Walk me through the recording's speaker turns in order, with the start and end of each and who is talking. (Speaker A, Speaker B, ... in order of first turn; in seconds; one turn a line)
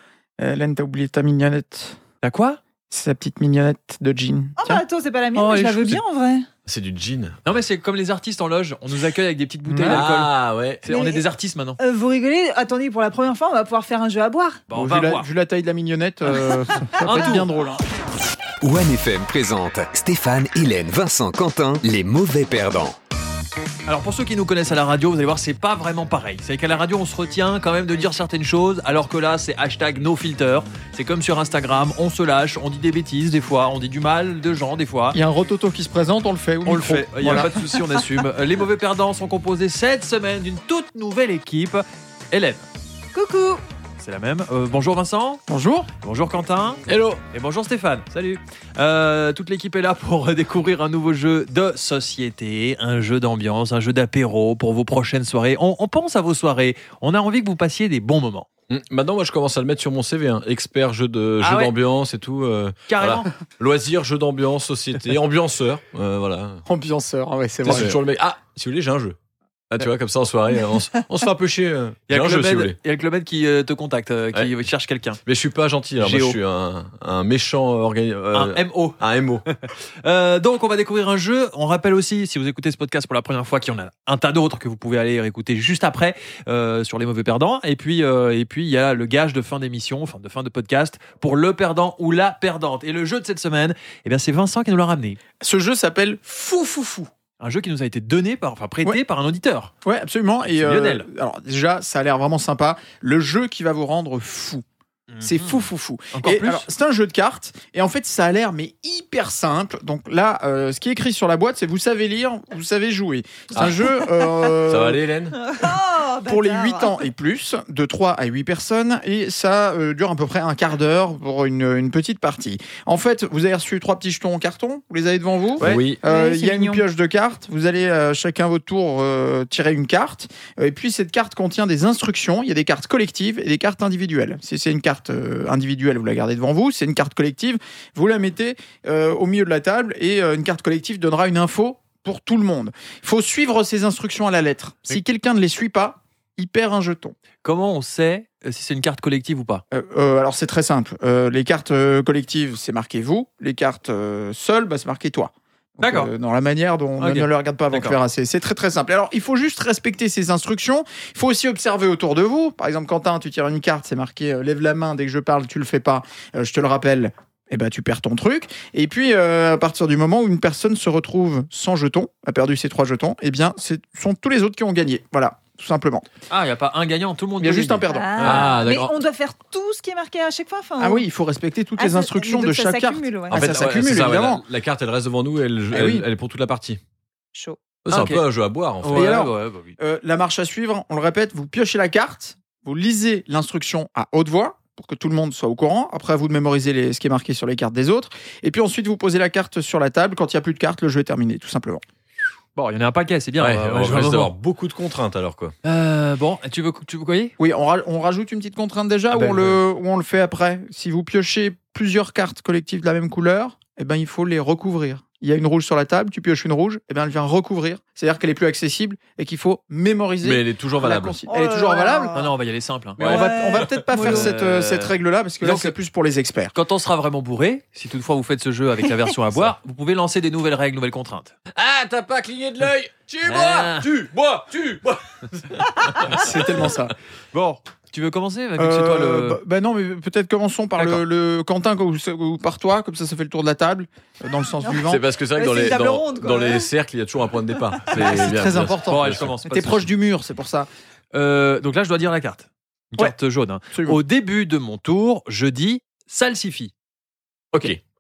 Speaker A: 0.4-2.0
Speaker B: 2.2-2.6
Speaker A: 2.9-4.8
Speaker C: 4.6-6.5
Speaker B: 5.3-6.0
Speaker D: 6.7-7.4
Speaker B: 7.5-11.8
Speaker A: 9.7-10.0
Speaker D: 9.9-10.9
Speaker C: 10.9-11.2
Speaker C: 11.8-14.6
Speaker B: 14.7-15.3
Speaker A: 14.7-17.8
Speaker C: 16.8-17.4
Speaker B: 17.0-17.5
Speaker E: 18.6-23.0
Speaker B: 23.9-35.2
Speaker A: 35.1-37.5
Speaker B: 36.6-42.6
Speaker C: 43.1-43.6
Speaker B: 44.0-45.4
Speaker A: 45.5-45.9
Speaker B: 46.0-58.5
Speaker D: 46.9-47.2
Speaker D: 58.7-66.6
Speaker B: 61.4-61.7
Speaker B: 62.9-63.3
Speaker A: 66.7-68.0
Speaker D: 67.6-69.2
Speaker D: 69.7-72.8
Speaker B: 72.1-75.2
Speaker D: 75.2-79.5
Speaker B: 76.0-76.4
Speaker B: 78.3-95.2
Speaker A: 95.4-97.1
Speaker B: 97.4-99.7
Speaker A: 99.8-104.6
Speaker B: 100.5-101.1
Speaker B: 105.1-106.7
Speaker A: 105.2-115.0
Speaker D: 113.5-114.0
Speaker D: 114.7-115.5
Speaker C: 115.5-117.0
Speaker A: 116.3-147.2
Speaker B: 125.6-125.9
Speaker D: 125.6-126.0
Speaker C: 126.0-126.8
Speaker B: 147.4-149.6
Speaker A: 149.7-176.1
Speaker B: 155.8-156.1
Speaker B: 157.0-158.0
Speaker B: 176.3-177.9
Speaker A: 177.4-178.1
Speaker C: 177.9-181.0
Speaker D: 178.2-178.9
Speaker A: 180.8-184.4
Speaker C: 181.8-183.5
Speaker D: 183.3-186.8
Speaker A: 185.7-186.1
Speaker D: 187.8-189.3
Speaker B: 187.9-188.2
Speaker B: 188.8-189.8
Speaker A: 188.9-201.8
Speaker B: 202.6-204.3
Speaker D: 203.4-205.5
Speaker B: 205.6-207.3
Speaker A: 207.4-222.2
Speaker D: 209.1-209.6
Speaker D: 220.2-221.2
Speaker C: 221.3-222.3
Speaker B: 222.1-223.1
Speaker C: 223.0-224.3
Speaker A: 223.0-226.5
Speaker D: 223.0-224.4
Speaker B: 223.9-225.8
Speaker B: 226.5-231.3
Speaker D: 231.5-236.5
Speaker B: 233.3-233.9
Speaker A: 236.1-236.9
Speaker B: 237.3-239.4
Speaker A: 238.6-245.0
Speaker C: 244.6-246.7
Speaker D: 244.8-249.3
Speaker A: 247.9-250.7
Speaker B: 248.9-249.9
Speaker B: 251.1-256.7
Speaker A: 253.7-254.0
Speaker D: 257.5-257.8